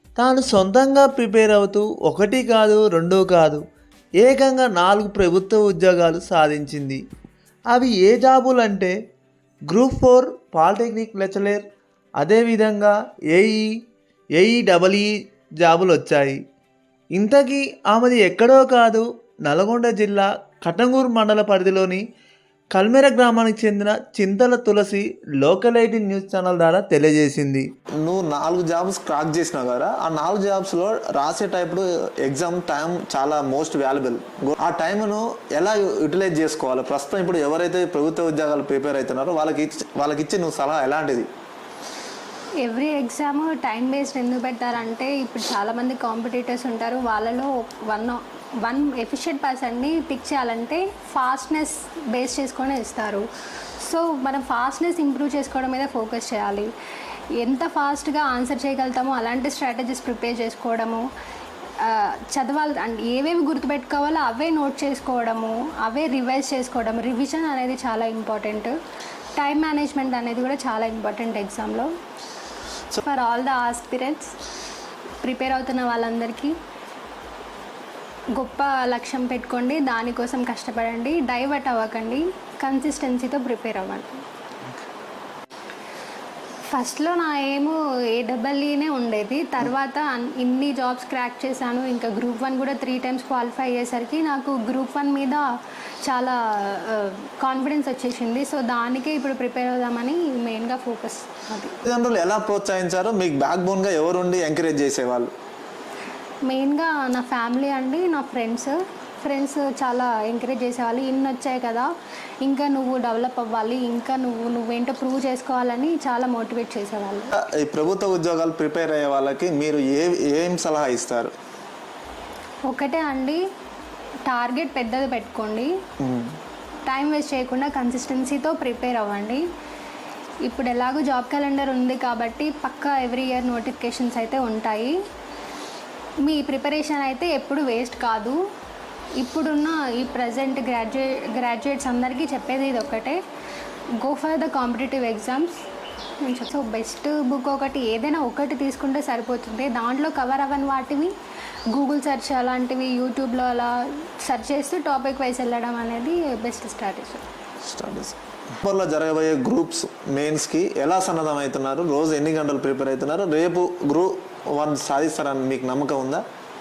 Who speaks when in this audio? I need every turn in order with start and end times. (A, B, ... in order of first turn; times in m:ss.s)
0:00.2-0:03.6 A
0:04.2-0:07.0 A
0:07.7-0:08.9 A
0:09.7-0:11.6 A
0:12.2-0:13.6 A
0:14.4-0:15.1 A
0:15.6-0:16.4 A
0:17.2-0:22.0 A
0:22.8-0:27.6 A
0:28.0-0:41.3 B
0:42.6-0:53.2 C
0:53.8-0:56.7 C
0:57.4-1:01.0 C
1:01.8-1:08.7 C
1:09.4-1:11.9 C
1:13.0-1:14.3 C
1:15.2-1:16.5 C
1:18.3-1:24.2 C
1:26.7-1:35.5 C
1:36.0-1:41.8 C
1:41.8-1:45.3 B
1:46.5-1:51.9 C
1:52.4-1:57.3 C
1:57.4-2:01.3 B
2:02.7-2:03.4 C
2:04.3-2:05.7 C
2:06.0-2:06.4 B
2:06.8-2:09.4 C
2:10.4-2:15.0 C
2:16.2-2:18.4 C
2:19.2-2:23.2 C
2:24.0-2:25.6 C
2:26.2-2:31.1 C
2:31.7-2:37.2 C
2:37.6-2:46.2 B